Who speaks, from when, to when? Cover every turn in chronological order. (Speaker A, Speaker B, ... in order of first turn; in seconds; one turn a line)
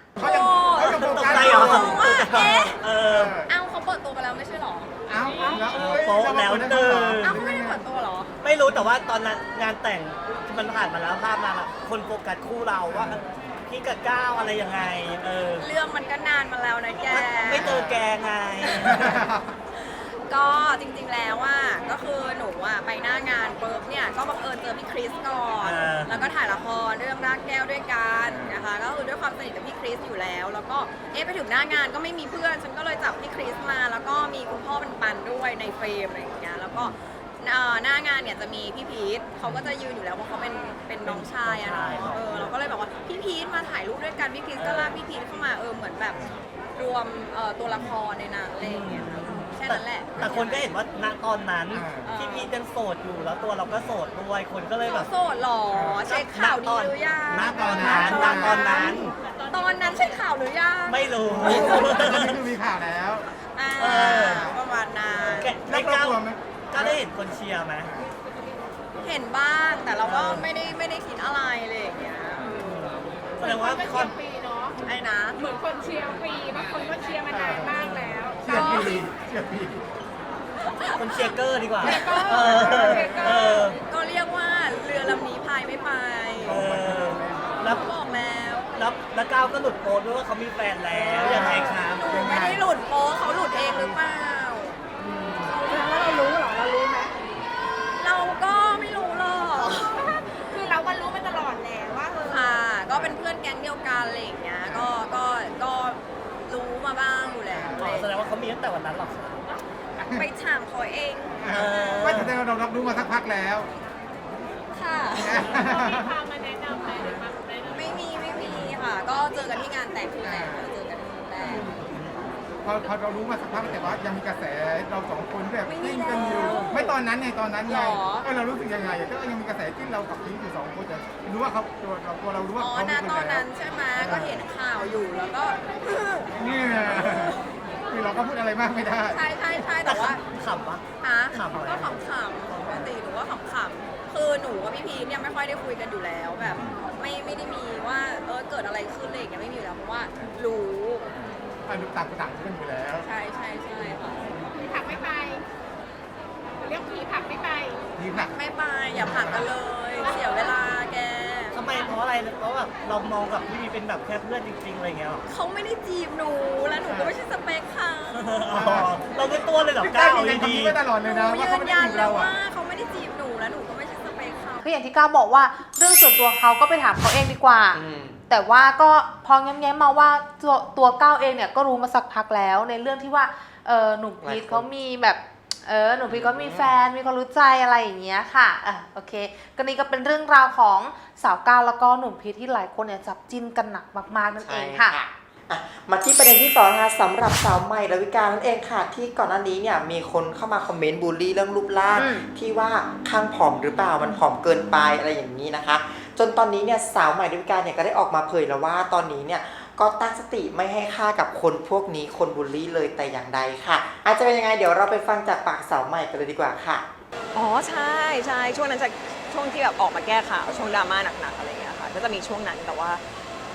Speaker A: 0.2-2.8
Speaker B: 0.2-3.5
Speaker C: 0.8-3.4
Speaker D: 0.8-2.4
Speaker A: 3.5-4.9
Speaker B: 5.1-7.8
Speaker E: 5.2-5.7
Speaker C: 5.7-7.4
Speaker A: 7.2-8.3
Speaker C: 8.4-15.7
Speaker B: 12.9-13.2
Speaker A: 15.6-17.6
Speaker C: 17.1-19.1
Speaker B: 17.6-18.1
Speaker B: 18.8-19.5
Speaker A: 19.8-46.2
Speaker C: 25.6-26.3
Speaker B: 28.2-28.6
Speaker C: 41.0-42.5
Speaker C: 44.6-45.0
Speaker A: 46.7-48.8
Speaker B: 47.7-48.0
Speaker C: 48.6-55.1
Speaker A: 49.5-50.6
Speaker B: 51.7-52.2
Speaker A: 52.1-52.5
Speaker A: 54.8-58.9
Speaker B: 55.7-56.1
Speaker C: 56.0-59.1
Speaker B: 57.4-58.7
Speaker D: 57.7-59.0
Speaker A: 59.5-61.0
Speaker C: 60.9-62.4
Speaker B: 61.2-63.3
Speaker A: 63.5-65.5
Speaker C: 63.8-64.5
Speaker B: 64.2-64.6
Speaker B: 65.2-67.0
Speaker C: 65.3-66.2
Speaker C: 66.7-67.9
Speaker B: 67.8-68.1
Speaker A: 69.0-72.8
Speaker C: 70.0-70.5
Speaker C: 72.4-74.1
Speaker E: 73.4-74.8
Speaker A: 74.8-75.4
Speaker E: 75.4-78.8
Speaker B: 77.3-77.8
Speaker C: 77.7-78.2
Speaker B: 78.4-79.8
Speaker A: 78.5-79.1
Speaker C: 81.0-83.8
Speaker B: 81.8-83.4
Speaker E: 81.9-83.7
Speaker A: 83.9-86.5
Speaker C: 86.4-87.8
Speaker B: 86.5-87.7
Speaker A: 87.6-88.7
Speaker C: 88.7-92.1
Speaker B: 91.0-92.6
Speaker A: 92.0-94.8
Speaker B: 93.4-94.0
Speaker B: 95.0-95.6
Speaker E: 95.6-97.2
Speaker A: 97.9-99.9
Speaker E: 99.5-102.7
Speaker A: 102.3-108.2
Speaker B: 102.9-103.1
Speaker B: 104.6-104.9
Speaker B: 107.5-107.9
Speaker C: 107.8-109.5
Speaker B: 110.0-110.3
Speaker A: 110.0-112.0
Speaker B: 111.4-113.7
Speaker C: 111.5-112.4
Speaker A: 114.7-115.2
Speaker B: 115.2-116.2
Speaker E: 115.5-118.0
Speaker D: 117.7-118.7
Speaker A: 118.0-121.5
Speaker B: 120.2-120.7
Speaker C: 121.5-122.2
Speaker B: 121.5-121.8
Speaker B: 122.6-134.4
Speaker A: 125.7-126.8
Speaker D: 125.9-127.0
Speaker C: 126.3-126.6
Speaker A: 127.7-128.3
Speaker A: 132.6-136.3
Speaker B: 136.3-139.7
Speaker A: 136.9-137.4
Speaker A: 139.1-140.2
Speaker C: 139.8-142.8
Speaker A: 141.0-151.1
Speaker B: 151.2-153.1
Speaker A: 153.0-154.3
Speaker E: 154.5-155.4
Speaker E: 156.6-157.8
Speaker B: 158.0-159.5
Speaker A: 158.3-161.6
Speaker E: 160.0-160.5
Speaker C: 161.5-165.2
Speaker A: 165.3-168.2
Speaker B: 166.8-167.2
Speaker C: 168.1-170.8
Speaker B: 168.5-168.9
Speaker B: 169.8-172.3
Speaker A: 171.0-174.6
Speaker F: 174.6-194.9
Speaker G: 177.7-178.2
Speaker G: 184.2-184.7
Speaker G: 186.1-186.7
Speaker G: 194.4-216.8
Speaker F: 201.9-202.2
Speaker D: 217.3-223.0